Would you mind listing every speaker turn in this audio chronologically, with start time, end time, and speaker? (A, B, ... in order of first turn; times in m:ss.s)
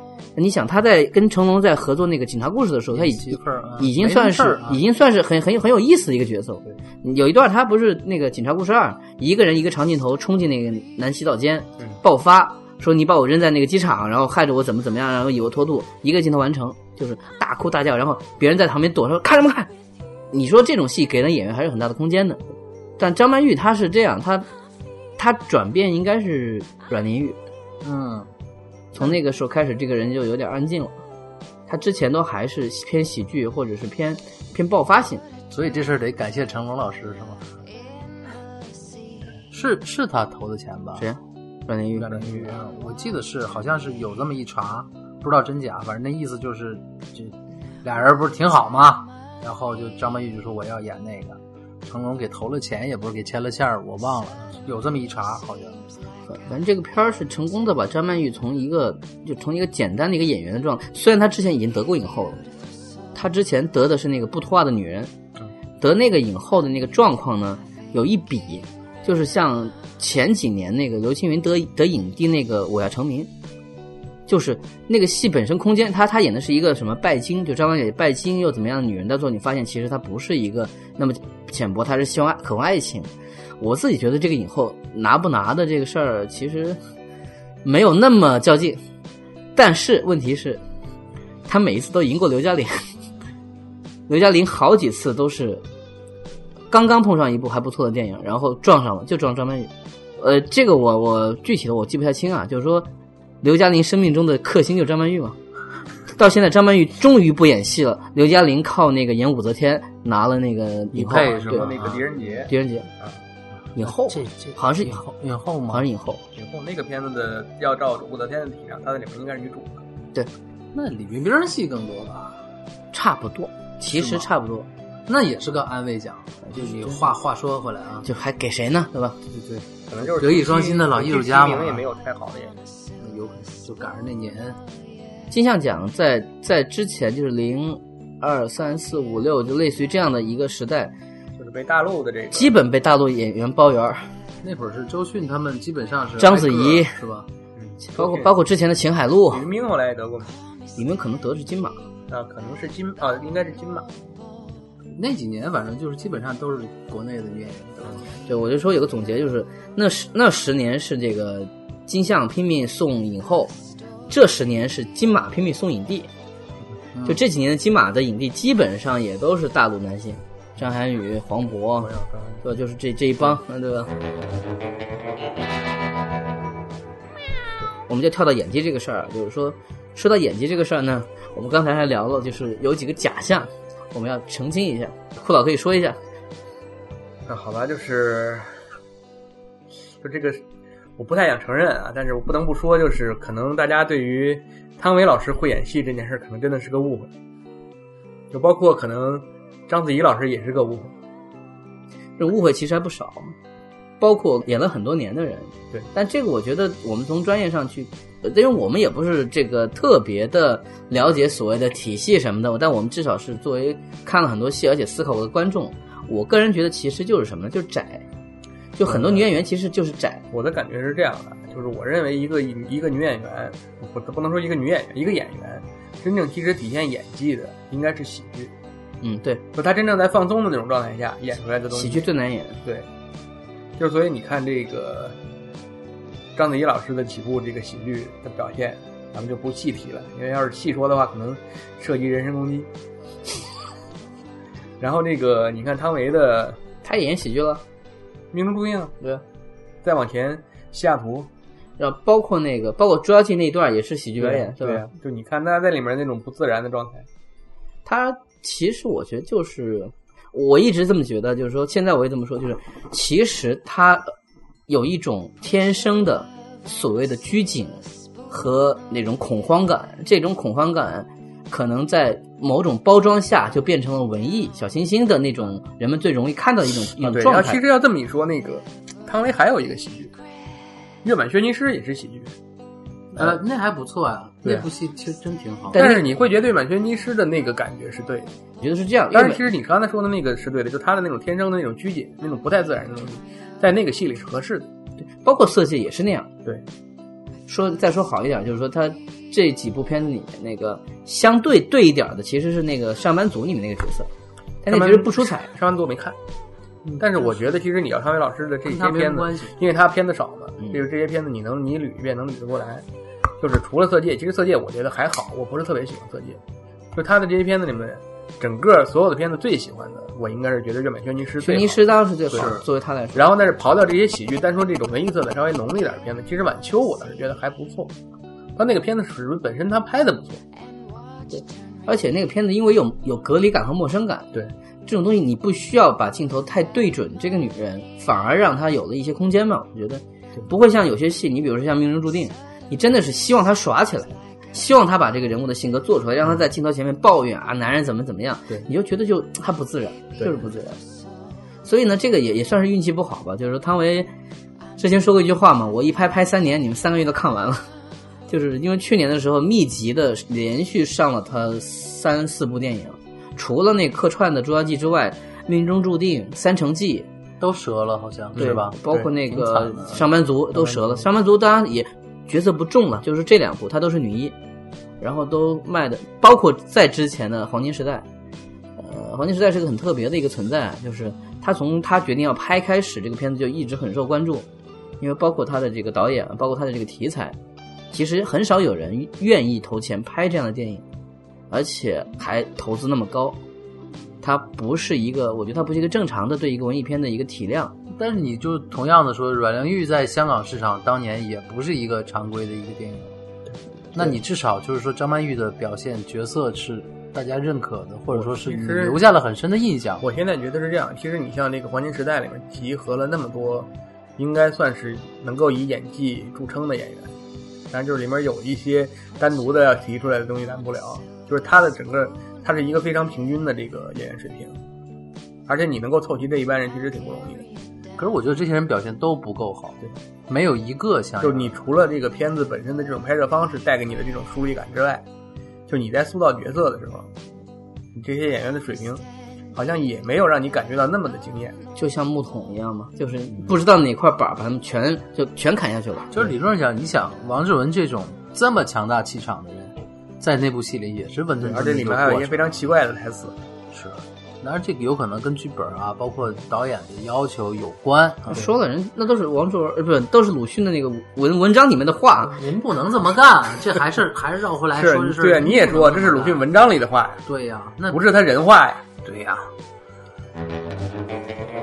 0:00.4-0:19.7 A
0:02.9-0:04.8 B
0:20.3-0:22.4 A
0:23.0-0:24.5 A
0:25.2-0:27.4 A
0:27.8-0:28.3 B
0:28.9-0:31.0 A
0:31.7-0:35.2 A
0:35.5-0:37.6 B
0:39.5-0:41.1 B
0:41.0-0:42.4 A
0:42.0-0:55.8 B
0:56.3-1:02.4 A
1:03.1-1:05.1 A
1:05.8-1:13.3 A
1:14.3-1:26.8 A
1:27.6-1:28.8 A
1:29.6-1:30.6 A
1:31.5-1:32.9 A
1:34.1-1:35.6 A
1:36.7-1:42.9 A
1:43.4-1:45.4 A
1:46.1-1:51.7 A
1:50.9-1:52.4 B
1:51.0-1:53.2 C
1:52.5-1:52.9 A
1:53.8-1:55.0 A
1:53.8-1:55.9 B
1:55.7-1:56.2 A
1:56.4-1:59.8 C
2:00.7-2:02.4 B
2:02.9-2:04.7 A
2:03.9-2:04.3 B
2:05.1-2:08.1 B
2:06.5-2:07.1 A
2:08.0-2:09.2 A
2:09.3-2:11.9 B
2:09.9-2:12.6 C
2:13.0-2:14.6 B
2:15.3-2:20.9 A
2:21.4-2:22.6 C
2:22.3-2:24.1 A
2:24.4-2:27.3 B
2:26.2-2:27.0 A
2:27.6-2:28.4 C
2:27.9-2:29.5 A
2:29.3-2:30.3 C
2:30.8-2:31.8 A
2:32.1-2:33.9 C
2:35.0-2:37.9 B
2:38.2-2:43.5 A
2:44.1-2:46.1 A
2:46.9-2:47.2 B
2:47.0-2:53.9 A
2:51.8-2:52.4 C
2:57.9-3:06.0 A
3:07.3-3:08.6 C
3:10.0-3:10.4 C
3:11.0-3:17.1 C
3:18.3-3:20.9 C
3:22.2-3:23.3 A
3:24.0-3:38.0 A
3:38.8-3:40.2 A
3:38.9-3:39.3 C
3:40.3-3:48.5 C
3:49.0-3:49.4 A
3:49.5-3:52.1 C
3:51.7-3:52.6 A
3:53.8-3:55.2 C
3:56.4-4:02.7 C
4:04.8-4:06.6 C
4:06.8-4:07.6 A
4:08.3-4:09.0 C
4:09.8-4:11.3 C
4:11.8-4:14.9 A
4:14.2-4:17.1 C
4:17.8-4:24.2 A
4:24.7-4:37.6 A
4:36.9-4:40.1 C
4:41.0-4:42.3 C
4:43.2-4:46.0 B
4:45.7-4:46.1 A
4:45.7-4:48.3 C
4:48.6-4:49.4 A
4:49.1-4:54.7 C
4:55.1-4:56.3 A
4:57.5-5:04.1 A
5:04.6-5:05.5 A
5:04.7-5:06.2 C
5:06.9-5:12.9 C
5:08.6-5:09.6 B
5:13.4-5:16.4 C
5:17.0-5:22.6 C
5:21.4-5:23.3 A
5:22.3-5:22.6 B
5:23.1-5:27.9 C
5:28.6-5:30.4 C
5:31.3-5:34.3 A
5:34.9-5:50.8 A
5:51.6-5:54.1 A
5:54.8-5:57.7 A
5:58.3-6:07.1 A
6:07.4-6:10.1 B
6:08.4-6:09.1 C
6:08.4-6:14.4 A
6:15.0-6:18.1 A
6:18.8-6:24.5 A
6:25.0-6:27.4 A
6:27.9-6:30.8 A
6:31.5-6:33.4 A
6:34.2-6:37.8 A
6:37.9-6:43.2 B
6:43.9-6:50.0 B
6:48.1-6:49.0 C
6:50.0-6:57.1 C
6:57.7-7:04.6 C
7:05.5-7:07.5 C
7:08.0-7:11.6 B
7:11.2-7:15.1 C
7:15.7-7:17.1 C
7:18.0-7:19.0 C
7:19.5-7:21.6 C
7:21.8-7:26.1 A
7:26.1-7:32.5 B
7:31.4-7:33.4 C
7:33.7-7:38.5 B
7:38.3-7:42.4 A
7:42.3-7:46.5 B
7:44.8-7:47.2 C
7:47.3-7:48.0 B
7:47.9-7:48.9 C
7:49.0-7:49.5 B